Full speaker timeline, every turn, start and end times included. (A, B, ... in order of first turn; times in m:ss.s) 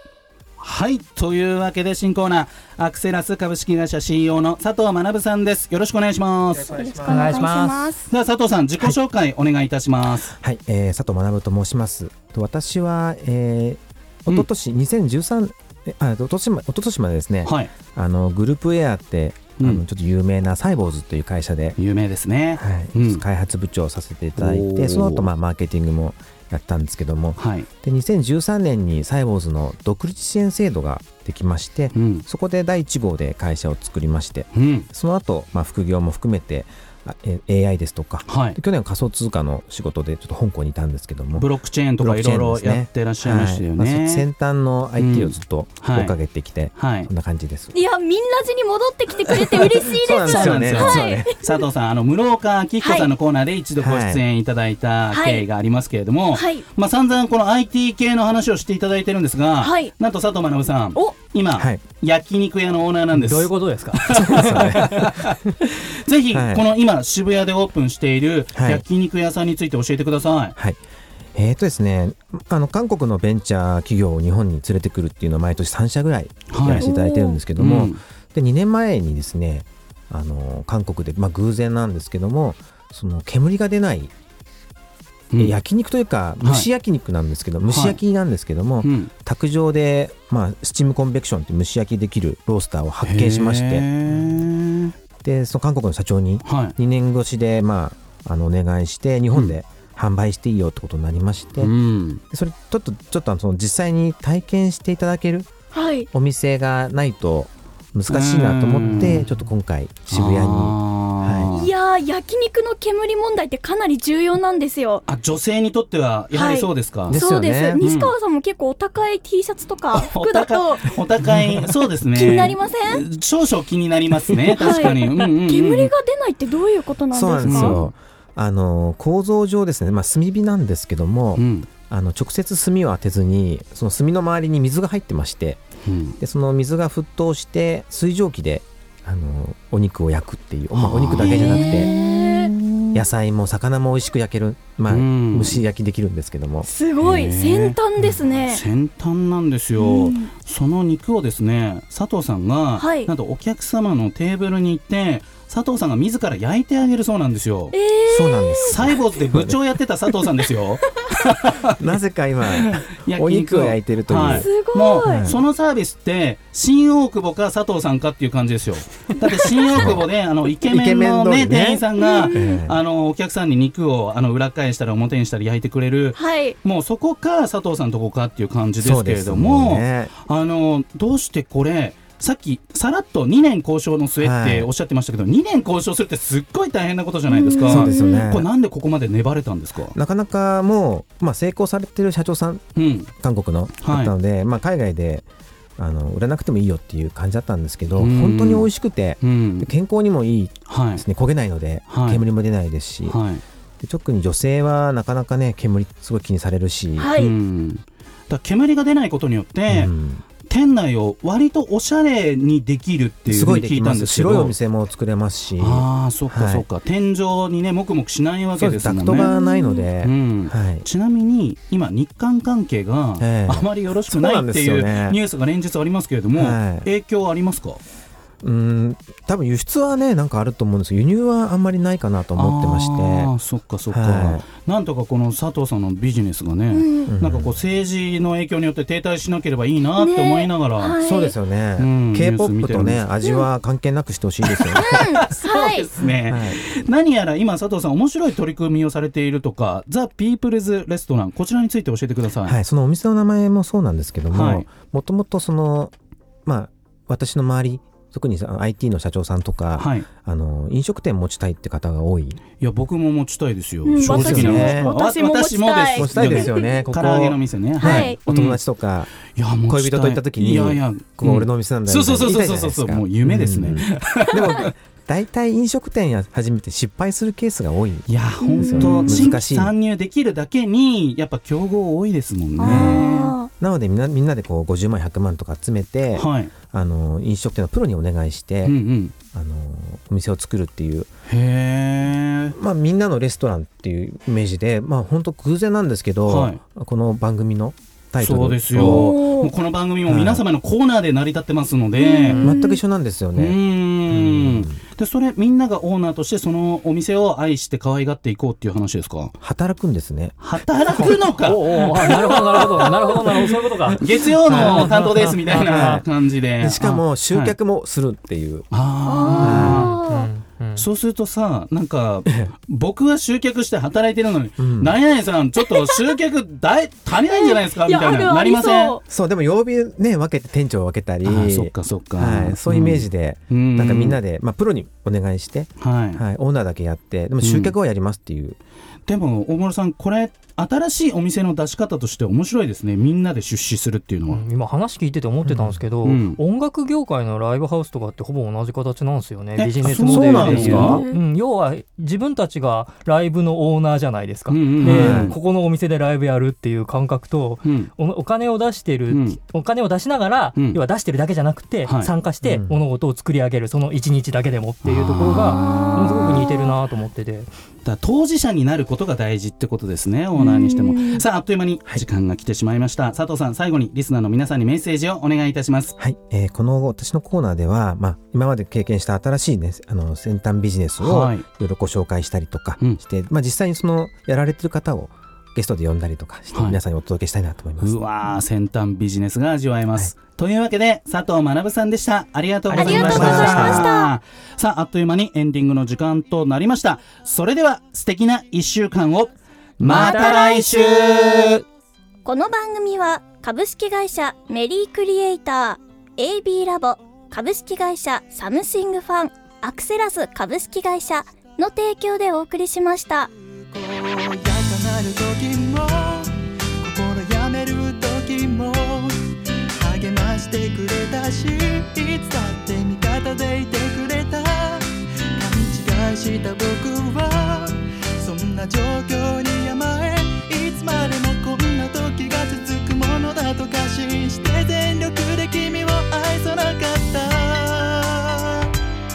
0:00.6-0:06.8 A
0:06.6-0:08.1 B
0:07.1-0:07.8 C
0:08.1-0:10.3 A
0:10.4-0:21.8 D
0:17.4-0:17.7 A
0:21.8-0:23.2 A
0:22.6-0:47.7 D
0:24.4-0:25.3 A
0:27.4-0:27.7 A
0:31.9-0:32.2 A
0:34.5-0:34.9 A
0:38.3-0:38.6 A
0:41.4-0:44.2 A
0:45.0-0:46.2 A
0:46.8-0:47.1 A
0:47.7-0:51.6 B
0:49.3-0:51.3 D
0:49.3-0:49.6 A
0:50.2-1:05.4 A
0:52.8-0:53.1 B
0:53.8-0:54.2 D
0:55.1-0:55.4 B
0:56.3-0:56.6 B
0:59.6-0:59.9 B
1:01.6-1:01.8 D
1:03.1-1:05.1 C
1:04.1-1:05.0 D
1:06.0-1:10.5 A
1:06.3-1:06.6 D
1:08.5-1:08.8 D
1:11.3-1:24.1 D
1:16.5-1:16.8 A
1:16.8-1:17.4 B
1:17.6-1:18.0 A
1:25.4-1:33.9 D
1:27.7-1:28.0 A
1:28.8-1:29.1 A
1:33.0-1:34.9 A
1:35.2-1:41.7 D
1:36.4-1:36.7 A
1:41.6-1:42.2 A
1:42.3-1:45.5 D
1:45.7-1:46.1 B
1:46.1-1:51.5 D
1:48.1-1:49.2 A
1:50.1-1:51.7 A
1:51.5-1:55.0 B
1:55.1-1:57.2 A
1:56.3-2:01.0 B
1:57.1-1:57.8 D
1:57.8-1:58.1 A
1:59.9-2:05.9 A
2:02.1-2:03.0 B
2:04.6-2:07.8 B
2:07.1-2:15.6 D
2:07.4-2:07.8 A
2:11.4-2:11.7 A
2:15.8-2:16.2 A
2:16.2-2:21.9 D
2:20.7-2:23.0 A
2:21.2-2:22.5 B
2:22.9-2:26.7 D
2:24.9-2:25.6 A
2:26.6-2:28.6 B
2:27.0-2:37.7 A
2:29.8-2:30.3 B
2:32.8-2:33.1 B
2:37.7-2:38.8 B
2:38.0-2:39.6 D
2:38.7-2:41.9 A
2:40.8-2:41.1 B
2:41.7-2:44.5 D
2:42.5-3:10.0 A
2:44.3-2:45.3 B
2:45.0-2:45.4 D
2:49.7-2:50.1 D
2:50.6-2:52.8 D
2:52.0-2:52.6 B
2:56.1-2:56.6 B
2:58.8-3:00.1 D
3:04.2-3:04.7 D
3:07.3-3:08.3 B
3:07.6-3:08.5 D
3:09.9-3:12.6 D
3:12.8-3:13.1 A
3:13.2-3:15.2 D
3:13.8-3:14.1 A
3:15.8-3:23.2 D
3:18.0-3:18.7 A
3:19.2-3:19.7 A
3:20.7-3:21.0 A
3:21.9-3:22.2 A
3:23.0-3:23.4 A
3:23.8-3:27.2 D
3:27.0-3:27.3 B
3:27.2-3:29.9 A
3:29.7-3:30.2 D
3:30.4-3:34.5 A
3:33.3-3:36.6 D
3:35.6-3:39.3 A
3:38.6-3:40.8 D
3:39.1-3:39.9 B
3:40.0-3:47.8 A
3:43.2-3:45.2 D
3:46.3-3:46.9 D
3:48.4-3:53.3 D
3:52.4-4:00.9 A
3:53.9-3:54.4 D
3:56.7-3:57.1 B
3:57.1-3:57.6 D
4:00.0-4:01.3 B
4:01.0-4:05.0 D
4:01.8-4:03.1 A
4:04.5-4:12.6 A
4:04.8-4:05.9 B
4:06.3-4:06.6 D
4:12.4-4:15.9 D
4:14.3-4:14.7 A
4:16.4-4:22.4 D
4:19.8-4:20.0 A
4:22.6-4:28.6 A
4:23.8-4:26.7 B
4:24.0-4:24.9 D
4:25.9-4:29.1 D
4:27.8-4:28.2 B
4:29.3-4:34.7 A
4:29.6-4:39.7 D
4:38.1-4:43.3 A
4:38.4-4:39.1 B
4:42.6-4:43.5 B
4:42.6-4:48.8 D
4:46.2-4:46.5 A
4:48.6-4:49.1 A
4:49.3-4:51.1 D
4:51.3-4:52.6 A
4:52.5-4:59.1 D
4:56.3-4:56.6 A
4:58.2-5:02.5 A
4:58.8-4:59.5 B
5:00.1-5:00.4 D
5:02.0-5:02.8 B
5:02.3-5:04.8 D
5:03.3-5:09.3 A
5:09.4-5:11.3 D
5:10.4-5:13.2 A
5:11.4-5:16.0 C
5:13.9-5:16.0 D
5:14.0-5:17.5 A
5:16.6-5:18.7 D
5:18.7-5:20.0 A
5:19.0-5:20.3 B
5:19.4-5:20.0 D
5:20.1-5:20.8 C
5:20.8-5:29.0 A
5:24.6-5:25.0 D
5:25.7-5:26.0 B
5:27.2-5:29.0 B
5:29.1-5:38.6 D
5:31.2-5:34.2 A
5:35.8-5:36.2 A
5:37.4-5:37.7 A
5:39.1-5:44.4 A
5:44.3-6:07.5 C
5:46.0-5:46.4 A
5:49.6-5:51.0 A
5:50.0-5:51.0 D
5:50.8-5:51.2 B
5:54.5-5:55.4 A
5:54.8-5:55.4 D
5:57.6-5:57.9 A
5:59.1-5:59.4 A
6:02.4-6:02.8 D
6:04.8-6:06.4 A
6:07.8-6:15.9 A
6:10.4-6:11.2 B
6:16.0-6:28.0 D
6:21.0-6:21.4 A
6:26.5-6:26.8 A
6:27.8-6:41.6 A
6:32.7-6:33.6 C
6:32.7-6:34.1 B
6:32.8-6:33.9 D
6:39.8-6:41.6 C
6:39.9-6:40.8 B
6:42.2-6:53.3 B
6:53.6-6:59.2 E
6:59.8-7:18.6 E